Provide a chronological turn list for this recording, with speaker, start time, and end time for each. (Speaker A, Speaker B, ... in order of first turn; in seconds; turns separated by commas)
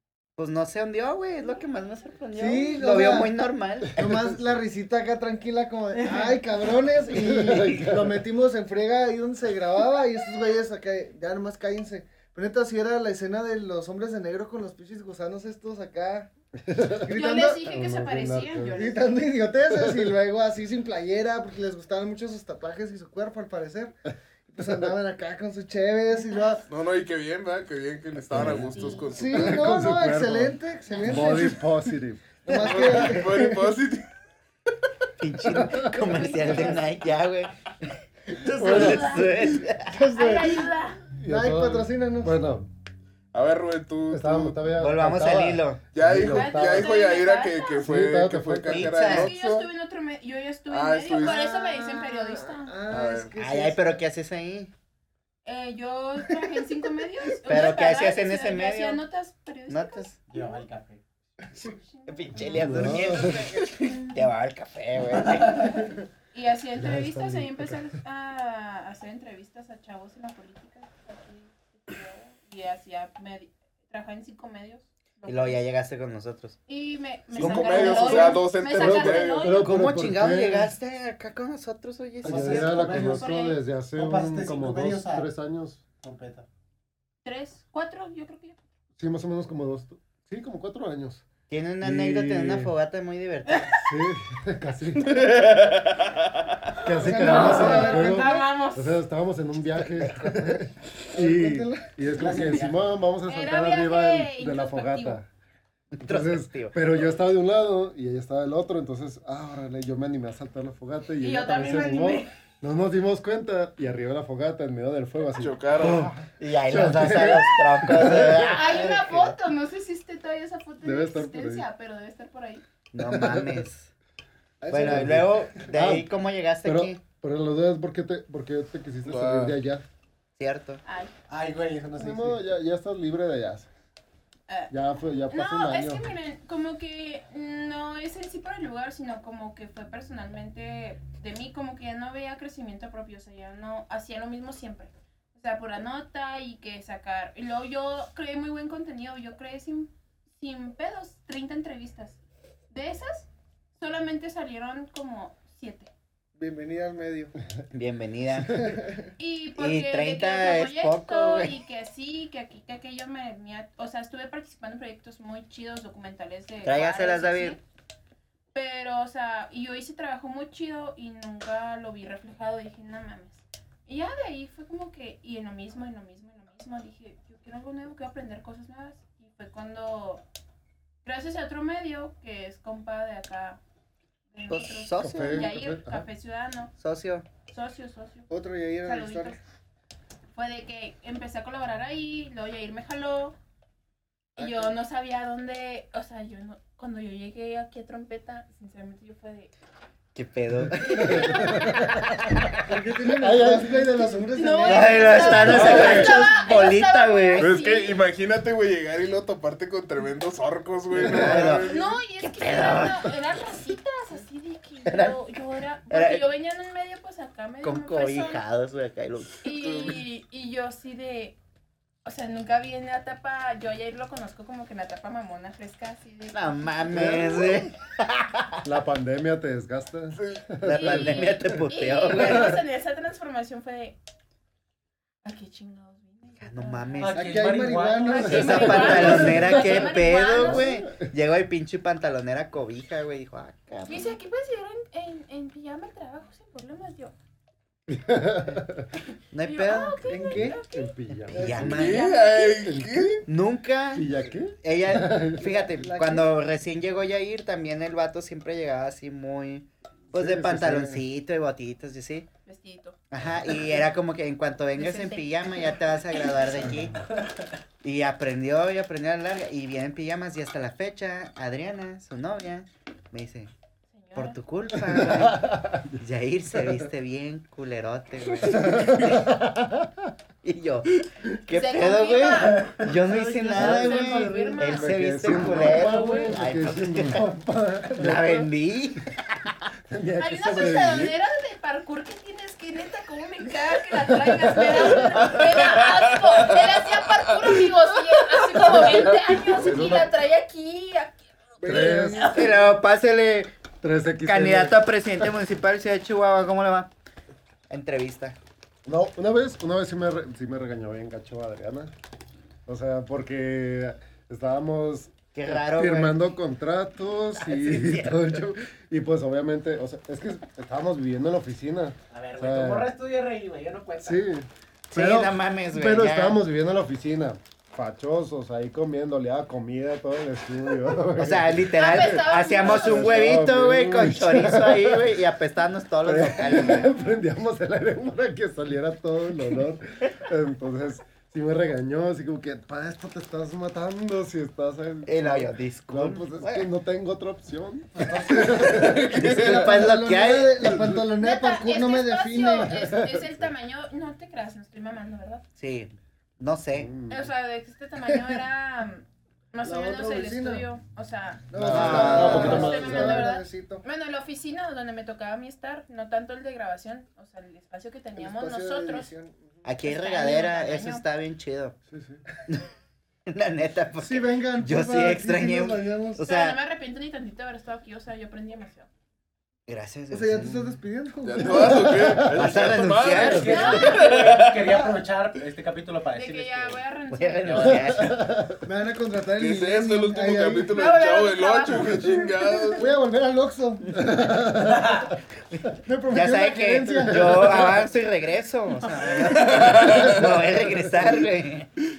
Speaker A: 0.4-4.0, Speaker B: 2.3-3.4, Speaker B: 3.9-16.3, Speaker C: 5.9-6.4, Speaker D: 7.1-8.2, Speaker D: 16.6-17.1, Speaker B: 17.0-17.7, Speaker C: 17.1-19.1, Speaker D: 17.6-18.9, Speaker B: 18.7-23.9, Speaker D: 19.7-20.1, Speaker B: 24.5-26.6, Speaker D: 24.6-24.9, Speaker E: 26.7-29.6, Speaker D: 28.3-32.4, Speaker A: 28.5-28.8, Speaker B: 29.1-31.7, Speaker B: 32.4-33.7, Speaker E: 32.5-34.1, Speaker A: 35.2-40.0, Speaker D: 35.5-36.5, Speaker C: 35.7-36.9, Speaker C: 38.4-41.0, Speaker D: 38.5-39.1, Speaker B: 39.9-40.7, Speaker D: 41.2-42.7, Speaker B: 41.2-42.4, Speaker E: 43.3-44.7, Speaker D: 44.1-46.9, Speaker A: 44.7-45.8, Speaker E: 45.9-49.7, Speaker C: 46.3-47.8, Speaker D: 47.8-49.0, Speaker A: 48.6-49.3, Speaker C: 49.1-52.8, Speaker E: 50.7-51.4, Speaker B: 51.1-54.0, Speaker E: 52.9-53.3, Speaker A: 53.4-54.7, Speaker C: 55.4-60.6, Speaker A: 57.4-59.0, Speaker A: 59.7-60.2, Speaker F: 60.3-61.0, Speaker C: 61.5-63.3, Speaker A: 62.1-65.8, Speaker D: 62.4-63.6, Speaker C: 63.8-64.2, Speaker C: 65.3-75.6, Speaker D: 66.7-67.9, Speaker A: 75.2-76.6, Speaker C: 76.7-79.8, Speaker E: 77.3-79.5, Speaker A: 77.3-78.4, Speaker D: 78.5-80.7, Speaker A: 79.5-82.8, Speaker F: 82.2-83.3, Speaker D: 82.2-85.8, Speaker C: 82.6-83.6, Speaker F: 83.9-85.3, Speaker F: 86.0-86.5, Speaker C: 87.2-88.5, Speaker D: 89.0-91.2, Speaker A: 91.5-93.7, Speaker D: 91.8-92.7, Speaker C: 93.5-93.9, Speaker D: 93.8-95.3, Speaker E: 95.0-96.7, Speaker D: 96.8-105.3, Speaker C: 97.0-99.0, Speaker B: 97.0-98.3, Speaker F: 97.5-97.8, Speaker B: 100.3-100.5, Speaker B: 101.1-101.9, Speaker F: 102.1-102.9, Speaker C: 103.2-105.2, Speaker A: 105.9-106.8, Speaker D: 106.0-118.5, Speaker C: 111.2-112.3, Speaker E: 115.3-116.2, Speaker A: 115.8-119.3, Speaker C: 118.4-122.6, Speaker D: 120.8-121.7, Speaker A: 122.9-123.9, Speaker D: 123.2-123.6, Speaker B: 124.6-125.3, Speaker D: 124.7-126.1, Speaker A: 124.7-127.0, Speaker D: 126.6-129.8, Speaker E: 129.0-129.6, Speaker A: 130.4-130.8, Speaker C: 130.8-131.1, Speaker F: 131.3-132.4, Speaker D: 131.9-133.7, Speaker C: 134.5-134.7, Speaker D: 134.7-136.0, Speaker C: 135.3-152.2, Speaker C: 152.7-155.9, Speaker B: 156.4-157.4, Speaker A: 157.7-158.6, Speaker B: 158.5-159.1, Speaker C: 159.2-167.6, Speaker A: 159.5-161.6, Speaker A: 166.6-167.6, Speaker C: 168.5-180.2, Speaker C: 181.0-183.6, Speaker C: 184.3-186.7, Speaker A: 184.5-185.5, Speaker D: 185.0-186.1, Speaker A: 186.8-187.3, Speaker C: 187.5-188.3, Speaker B: 188.3-189.4, Speaker C: 188.8-189.4, Speaker C: 190.3-193.3, Speaker B: 194.4-194.7, Speaker C: 194.4-199.5, Speaker A: 200.1-202.6, Speaker D: 200.6-201.9, Speaker C: 200.9-201.9, Speaker B: 202.7-206.2, Speaker D: 203.2-203.9, Speaker C: 204.3-208.0, Speaker A: 204.6-207.6, Speaker E: 205.4-206.2, Speaker E: 207.4-211.9, Speaker A: 210.9-213.2, Speaker D: 211.0-211.4, Speaker C: 211.6-218.4, Speaker A: 214.8-215.2, Speaker A: 215.9-216.3, Speaker A: 217.6-219.4, Speaker C: 219.4-221.3, Speaker E: 219.5-220.0, Speaker C: 222.0-227.7, Speaker A: 226.3-228.6, Speaker D: 228.6-231.3, Speaker E: 230.2-230.5, Speaker A: 230.6-232.6, Speaker C: 230.7-233.9, Speaker D: 232.2-232.5, Speaker C: 235.2-237.1, Speaker A: 236.4-237.4, Speaker F: 237.0-239.9, Speaker B: 237.1-239.2, Speaker C: 238.0-240.8, Speaker A: 238.3-244.2, Speaker D: 238.4-239.7, Speaker D: 240.3-241.1, Speaker C: 243.9-247.1, Speaker D: 247.9-248.9, Speaker A: 249.3-250.1, Speaker C: 249.4-250.9, Speaker B: 250.1-250.6, Speaker D: 250.2-251.9, Speaker A: 251.3-252.1, Speaker B: 251.3-251.7, Speaker C: 251.5-252.7, Speaker E: 251.6-253.2, Speaker D: 252.6-253.2, Speaker A: 253.3-254.1, Speaker D: 253.9-255.6, Speaker A: 254.6-262.3, Speaker B: 255.6-256.3, Speaker D: 260.1-261.0, Speaker C: 262.4-262.9, Speaker A: 263.1-267.0, Speaker C: 264.8-266.9, Speaker A: 267.8-273.5, Speaker C: 273.9-274.4, Speaker A: 274.1-279.4, Speaker D: 274.8-275.9, Speaker D: 278.6-280.0, Speaker A: 280.4-287.3, Speaker C: 281.5-286.4, Speaker D: 283.1-288.5, Speaker A: 288.0-289.5, Speaker D: 289.9-291.1, Speaker C: 290.2-301.3, Speaker D: 294.1-295.3, Speaker E: 295.3-297.5, Speaker D: 298.7-300.1, Speaker E: 298.8-299.4, Speaker B: 301.6-302.5, Speaker D: 301.6-302.4, Speaker A: 302.2-303.6, Speaker D: 303.8-305.3, Speaker A: 304.2-306.9, Speaker A: 307.7-308.4, Speaker D: 308.8-311.9, Speaker D: 312.6-322.9, Speaker A: 315.3-316.2, Speaker A: 317.4-318.5, Speaker F: 322.1-324.3, Speaker D: 324.0-331.9, Speaker A: 324.9-326.4, Speaker A: 331.1-336.9, Speaker C: 331.7-333.4, Speaker D: 332.6-335.2, Speaker D: 336.0-349.5, Speaker A: 345.1-346.6, Speaker B: 348.0-352.9, Speaker E: 348.4-349.6, Speaker A: 349.2-350.9, Speaker C: 351.2-355.4, Speaker D: 352.7-353.4, Speaker A: 355.6-357.0, Speaker D: 356.8-357.3, Speaker C: 357.1-369.1, Speaker B: 359.6-360.6, Speaker B: 361.5-363.8, Speaker D: 361.5-363.2, Speaker A: 361.7-362.8, Speaker B: 368.2-369.7, Speaker A: 369.6-371.8, Speaker C: 369.8-371.0, Speaker D: 371.9-372.2, Speaker A: 373.3-376.6, Speaker B: 374.0-376.2, Speaker C: 376.2-378.9, Speaker A: 379.7-380.8, Speaker B: 380.1-382.2, Speaker E: 381.2-384.5, Speaker D: 381.4-382.5, Speaker A: 382.3-384.4, Speaker F: 383.0-386.8, Speaker C: 383.3-384.2, Speaker C: 386.1-387.9, Speaker A: 387.1-388.2, Speaker D: 387.6-388.6, Speaker B: 388.6-390.8, Speaker E: 389.4-392.8, Speaker C: 390.7-392.9, Speaker B: 392.8-394.0, Speaker D: 393.9-395.1, Speaker F: 394.6-395.1, Speaker B: 395.8-397.7, Speaker A: 396.1-401.7, Speaker D: 396.9-397.6, Speaker E: 399.1-400.3